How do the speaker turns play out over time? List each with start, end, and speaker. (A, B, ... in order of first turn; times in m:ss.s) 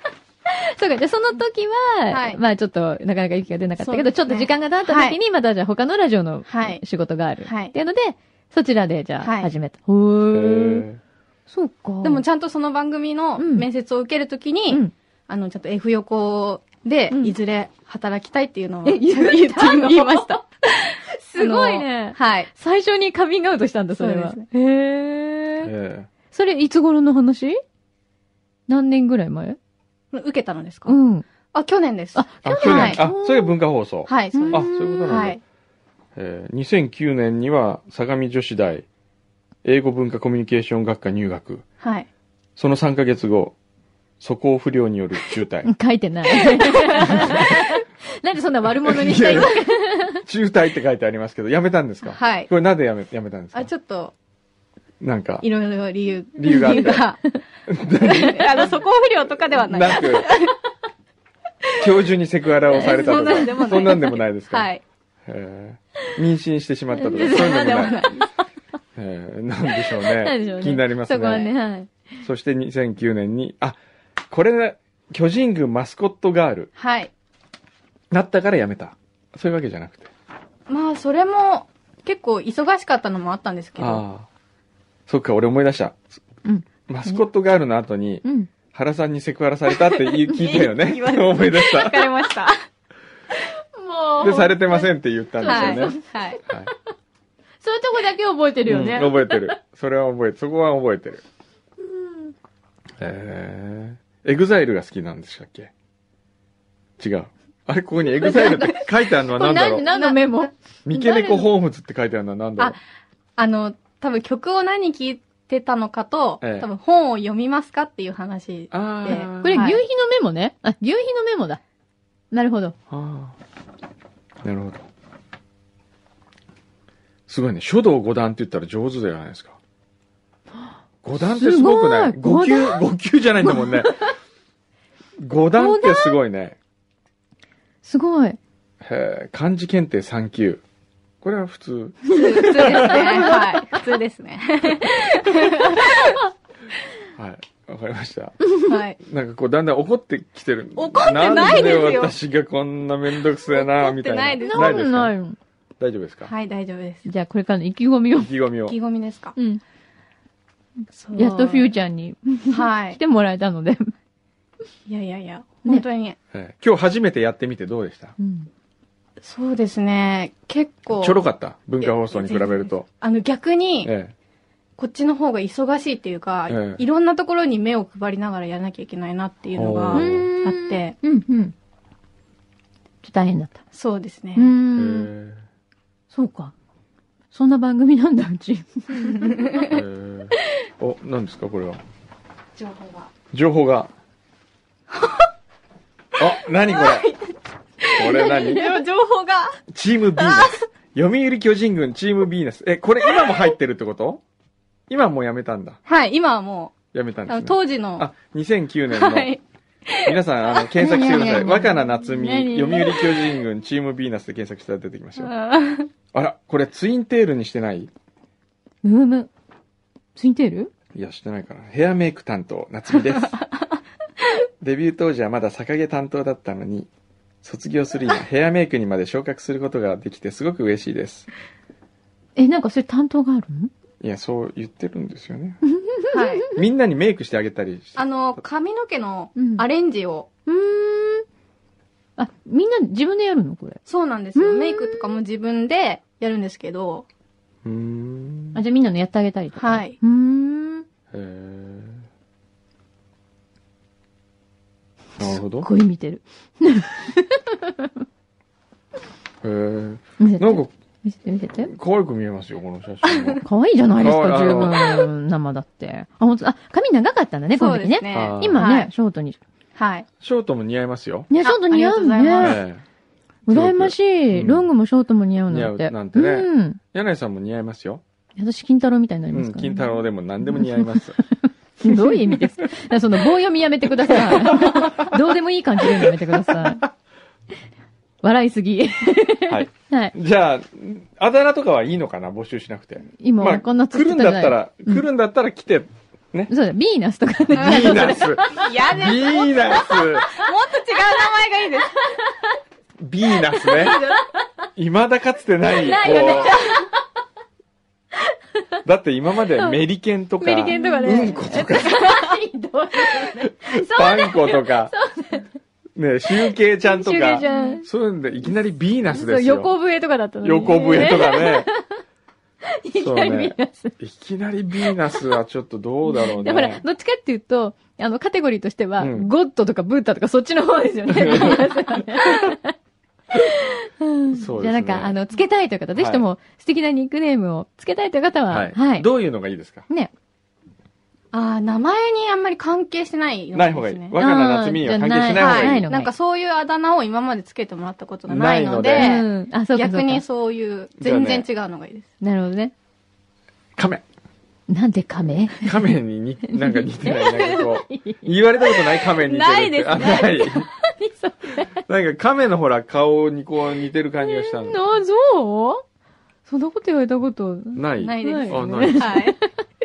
0:00.5-0:10.9 A
0:02.1-0:02.4 B
0:03.8-0:05.2 B
0:06.5-0:06.8 B
0:07.4-0:07.7 B
0:09.2-0:09.5 B
0:10.3-0:11.0 C
0:11.5-0:12.2 A
0:12.0-0:22.5 B
0:13.4-0:13.7 A
0:18.8-0:20.4 A
0:21.2-0:25.7 A
0:24.0-0:24.5 B
0:25.6-0:26.1 C
0:26.3-0:27.6 A
0:28.7-0:29.6 A
0:30.1-0:30.9 B
0:30.9-0:31.2 A
0:31.5-0:33.0 B
0:32.2-0:33.5 A
0:32.4-0:35.4 C
0:34.1-0:35.4 B
0:34.3-0:35.2 A
0:36.2-0:38.9 C
0:39.6-0:41.6 C
0:41.8-0:42.1 B
0:42.6-0:43.6 C
0:44.2-0:45.7 C
0:45.6-0:50.2 A
0:47.0-0:47.7 C
0:48.8-0:53.7 C
0:52.2-0:52.5 B
0:53.5-0:54.1 B
0:55.0-0:55.5 C
0:55.4-0:57.4 B
0:56.4-0:57.1 C
0:56.5-0:57.0 A
0:57.7-1:00.3 C
0:58.0-1:00.6 B
1:01.8-1:04.7 C
1:02.7-1:04.8 B
1:02.7-1:04.2 A
1:05.2-1:08.0 C
1:07.0-1:08.1 A
1:07.0-1:08.3 B
1:09.0-1:11.5 C
1:09.8-1:12.0 A
1:12.2-1:13.8 C
1:14.3-1:16.7 C
1:16.8-1:17.1 B
1:18.1-1:20.1 C
1:20.7-1:24.0 B
1:23.8-1:24.3 C
1:25.1-1:26.0 C
1:26.4-1:27.2 A
1:26.9-1:32.0 C
1:28.2-1:28.5 A
1:30.1-1:32.6 B
1:33.4-1:36.4 A
1:34.2-1:36.0 C
1:35.5-1:36.4 B
1:36.5-1:36.7 C
1:37.6-1:39.6 A
1:38.7-1:41.2 C
1:41.8-1:42.3 A
1:43.0-1:45.7 C
1:47.0-1:49.9 C
1:48.2-1:51.5 A
1:49.9-1:50.2 B
1:50.9-1:52.8 C
1:53.4-1:59.8 B
1:56.4-1:56.7 C
1:58.7-1:59.6 C
1:59.1-2:01.6 A
2:02.3-2:02.8 A
2:02.9-2:03.4 C
2:04.4-2:04.9 C
2:07.3-2:09.6 C
2:11.0-2:13.9 C
2:11.2-2:12.8 A
2:13.4-2:14.1 A
2:15.2-2:16.6 C
2:15.6-2:16.2 A
2:17.8-2:18.4 A
2:18.8-2:20.6 C
2:21.2-2:23.3 C
2:22.1-2:26.2 B
2:22.6-2:23.8 A
2:25.4-2:26.2 A
2:27.2-2:28.4 C
2:28.7-2:29.0 B
2:29.0-2:35.1 C
2:30.8-2:32.1 B
2:33.3-2:34.8 B
2:34.5-2:35.4 A
2:35.8-2:36.3 C
2:36.3-2:37.1 B
2:37.1-2:38.3 A
2:38.1-2:38.8 C
2:38.7-2:39.3 B
2:39.4-2:39.6 A
2:41.0-2:41.7 B
2:41.1-2:43.9 A
2:42.5-2:43.0 B
2:44.9-2:46.2 B
2:46.3-2:48.2 C
2:48.2-2:48.5 A
2:49.2-2:51.2 B
2:51.0-2:52.9 C
2:51.8-2:53.9 B
2:53.8-2:54.1 C
2:54.8-3:00.9 B
2:56.5-2:56.8 C
2:59.5-3:00.2 C
2:59.9-3:01.5 A
3:03.0-3:03.6 A
3:03.7-3:04.5 B
3:04.4-3:05.1 A
3:04.8-3:05.4 C
3:06.1-3:06.5 A
3:07.3-3:09.6 A
3:09.2-3:09.7 B
3:09.6-3:11.8 C
3:12.6-3:13.1 B
3:13.3-3:13.9 C
3:14.9-3:15.3 B
3:16.2-3:17.1 C
3:16.7-3:19.6 B
3:17.9-3:18.8 C
3:19.7-3:24.2 C
3:20.2-3:20.6 B
3:23.1-3:23.4 B
3:24.9-3:25.8 C
3:25.9-3:28.1 B
3:26.9-3:29.3 C
3:28.9-3:31.5 B
3:30.0-3:35.3 C
3:30.8-3:33.0 A
3:35.2-3:35.9 B
3:36.1-3:37.9 C
3:38.8-3:39.3 A
3:40.2-3:40.7 A
3:40.9-3:43.4 C
3:43.1-3:43.7 B
3:44.6-3:46.9 C
3:47.4-3:51.3 C
3:52.4-3:53.7 A
3:54.0-3:55.6 C
3:55.6-3:56.6 A
3:56.1-3:56.5 B
3:56.6-3:58.4 C
3:58.0-4:00.3 B
3:59.4-3:59.6 A
4:00.5-4:01.3 A
4:02.2-4:03.8 A
4:03.9-4:07.1 B
4:04.4-4:05.1 A
4:07.6-4:08.6 C
4:08.6-4:10.8 A
4:09.6-4:10.0 B
4:11.1-4:12.0 C
4:15.2-4:15.7 C
4:15.2-4:17.9 A
4:19.4-4:20.7 C
4:20.2-4:21.7 A
4:21.6-4:23.4 C
4:23.0-4:23.4 B
4:23.4-4:29.4 A
4:24.0-4:25.0 C
4:27.5-4:28.9 B
4:28.1-4:28.6 C
4:29.8-4:30.1 B
4:30.2-4:31.3 C
4:31.3-4:32.6 A
4:31.4-4:32.6 B
4:32.4-4:32.8 C
4:33.5-4:36.8 A
4:33.5-4:34.7 C
4:35.5-4:38.0 C
4:38.4-4:39.9 A
4:39.3-4:41.2 C
4:40.4-4:46.8 A
4:41.8-4:42.7 C
4:44.1-4:45.2 C
4:45.8-4:46.9 C
4:48.2-4:50.2 A
4:49.5-4:56.5 C
4:53.2-4:55.0 A
4:56.5-4:58.7 A
4:57.5-5:00.3 C
4:57.8-5:02.1 B
5:03.0-5:04.0 C
5:03.6-5:04.3 A
5:03.6-5:04.2 B
5:04.8-5:06.6 C
5:05.7-5:06.9 A
5:06.0-5:06.8 B
5:08.8-5:12.0 C
5:10.4-5:15.5 A
5:10.7-5:12.2 B
5:13.4-5:14.9 C
5:16.0-5:19.7 C
5:16.4-5:17.9 A
5:17.4-5:17.8 B
5:19.1-5:22.0 A
5:20.4-5:21.7 C
5:22.7-5:23.9 A
5:23.0-5:26.8 C
5:24.9-5:25.3 A
5:26.1-5:32.8 A
5:29.0-5:29.3 C
5:31.1-5:32.6 C
5:33.3-5:39.1 A
5:34.3-5:35.2 C
5:35.9-5:36.2 C
5:38.5-5:39.9 C
5:41.3-5:44.2 B
5:43.5-5:45.9 C
5:44.2-5:46.1 A
5:45.4-5:52.1 B
5:48.3-5:49.2 C
5:48.9-5:50.2 A
5:51.0-5:51.5 C
5:52.2-5:52.7 A
5:53.8-5:54.0 C
5:54.7-5:55.8 A
5:55.6-6:00.7 C
5:56.5-5:58.3 A
5:58.7-6:00.6 B
6:00.0-6:01.8 A
6:01.9-6:04.8 C
6:04.2-6:05.8 A
6:06.5-6:09.5 A
6:07.7-6:09.3 C
6:08.0-6:09.4 B